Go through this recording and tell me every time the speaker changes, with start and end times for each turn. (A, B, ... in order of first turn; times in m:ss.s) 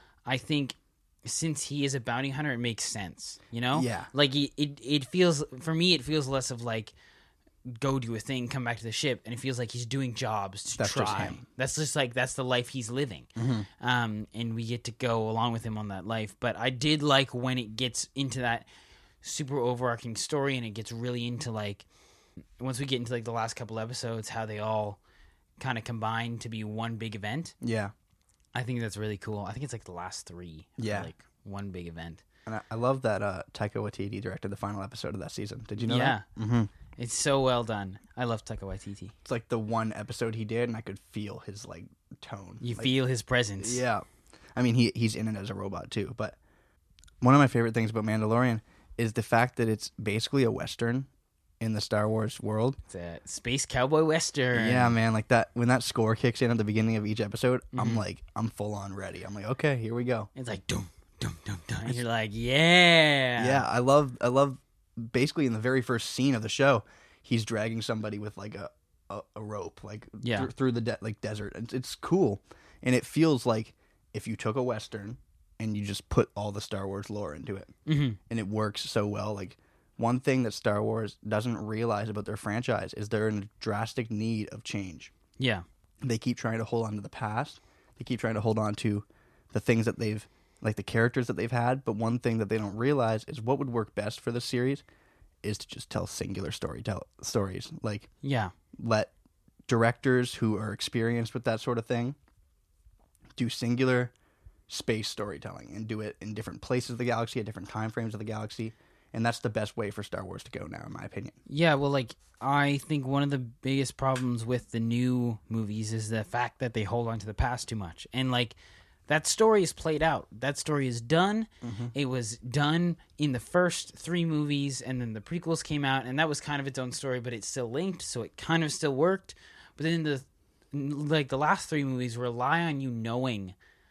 0:00.3-0:06.9 A
0:03.7-0:04.1 B
0:07.7-0:13.3 A
0:10.8-0:11.4 B
0:13.4-0:13.7 B
0:13.8-0:18.7 A
0:19.2-0:21.9 A
0:22.6-0:25.0 A
0:25.6-0:27.6 A
0:27.6-0:27.9 B
0:28.5-0:32.2 A
0:30.8-0:31.1 B
0:32.5-0:36.7 B
0:35.8-0:36.3 A
0:37.0-0:39.2 A
0:39.2-0:42.9 B
0:42.6-0:43.8 A
0:43.6-0:44.0 B
0:44.6-0:46.4 B
0:47.2-0:51.1 B
0:51.6-0:52.8 B
0:52.9-0:55.0 A
0:54.5-1:00.3 B
0:57.7-0:58.0 A
1:00.4-1:03.6 A
1:03.4-1:17.7 B
1:10.2-1:10.5 A
1:17.9-1:18.2 A
1:18.3-1:25.1 B
1:25.4-1:25.6 A
1:26.0-1:34.8 B
1:35.4-1:38.1 B
1:38.2-1:38.5 A
1:38.8-1:39.1 B
1:39.7-1:42.2 B
1:43.4-1:44.1 B
1:44.7-1:51.4 B
1:51.5-1:58.6 A
1:59.1-2:13.6 A
2:01.6-2:01.9 B